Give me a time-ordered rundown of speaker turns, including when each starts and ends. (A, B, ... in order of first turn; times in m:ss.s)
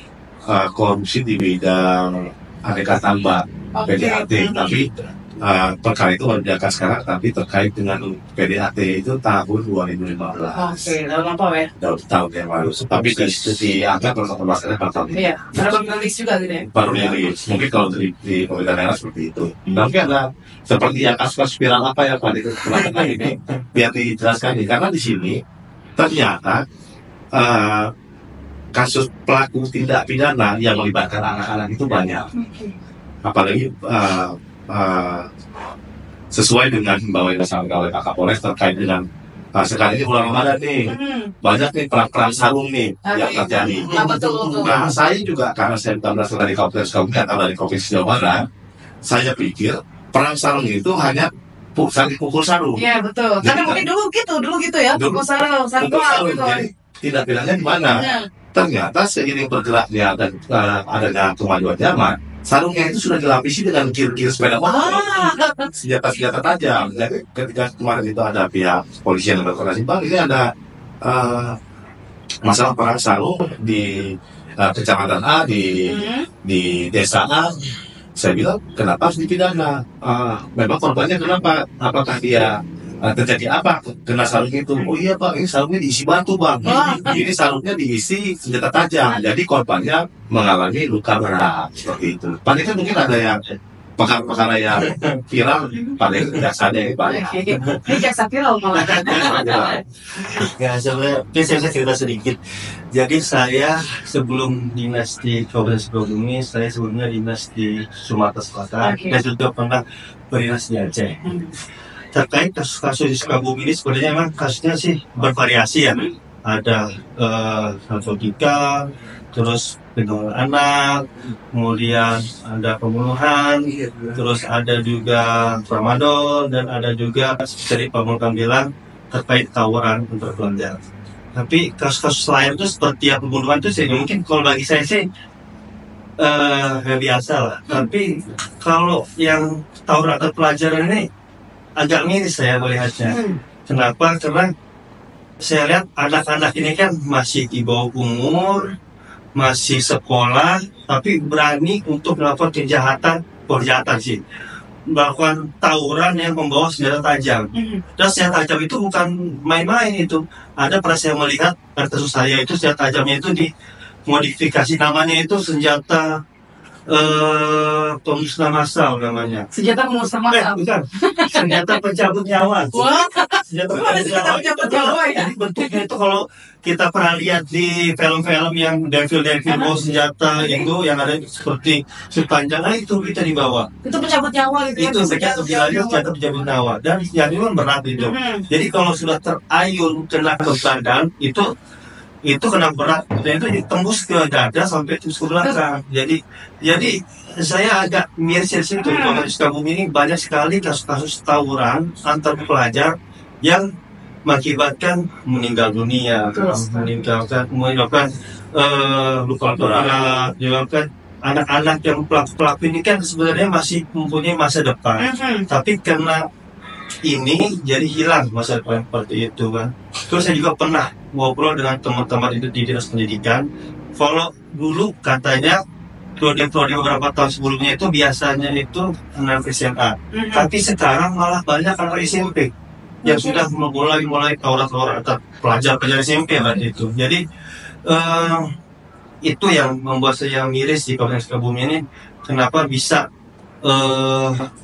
0:00.5-0:04.9 A
0:03.7-0:04.8 B
0:05.4-0:11.0 A
0:10.6-0:11.7 B
0:11.8-0:15.2 A
0:12.6-0:13.6 C
0:15.1-0:16.7 B
0:16.7-0:25.4 A
0:16.8-0:17.3 C
0:26.0-0:26.6 A
0:27.3-0:27.9 A
0:28.7-0:32.3 A
0:32.3-0:32.8 B
0:33.2-0:35.3 A
0:36.3-0:39.0 A
0:39.6-0:48.4 A
0:40.8-0:41.3 B
0:43.0-0:44.8 B
0:49.0-0:52.8 A
0:52.8-0:56.6 B
0:53.4-0:53.8 A
0:54.9-0:55.2 A
0:55.8-1:05.1 A
0:57.9-0:58.2 B
1:04.6-1:05.7 B
1:05.8-1:10.5 A
1:11.0-1:11.6 A
1:12.4-1:17.5 A
1:15.8-1:16.3 B
1:18.2-1:33.4 A
1:26.6-1:27.2 B
1:34.0-1:37.3 A
1:37.1-1:39.8 B
1:37.5-1:37.8 C
1:38.8-1:39.4 C
1:39.1-1:39.8 A
1:40.2-1:42.4 C
1:42.9-1:51.2 C
1:48.8-1:49.2 B
1:51.2-1:51.5 B
1:52.1-2:10.8 C
2:11.3-2:15.0 C
2:16.2-2:21.0 C
2:21.8-2:24.5 C
2:23.1-2:23.4 B
2:25.4-2:28.7 C
2:29.3-2:34.2 C
2:34.9-2:43.5 C
2:37.5-2:37.8 B
2:44.1-2:46.1 C
2:46.9-2:49.5 C
2:49.5-2:51.8 B
2:50.3-2:52.8 C
2:52.7-2:55.8 B
2:53.5-3:03.7 C
2:59.5-2:59.7 B
3:00.4-3:00.7 B
3:03.8-3:06.1 B
3:04.8-3:11.5 C
3:08.0-3:08.4 B
3:12.2-3:23.6 C
3:18.8-3:19.3 B
3:24.3-3:36.2 C
3:26.3-3:26.9 B
3:29.5-3:30.0 A
3:35.0-3:35.5 B
3:37.0-3:43.4 C
3:44.0-3:45.6 C
3:46.2-3:52.5 C
3:50.1-3:50.5 B
3:53.0-3:53.4 B
3:53.0-3:57.2 C
3:57.9-3:58.5 C
3:59.2-4:03.0 C
4:03.6-4:04.4 C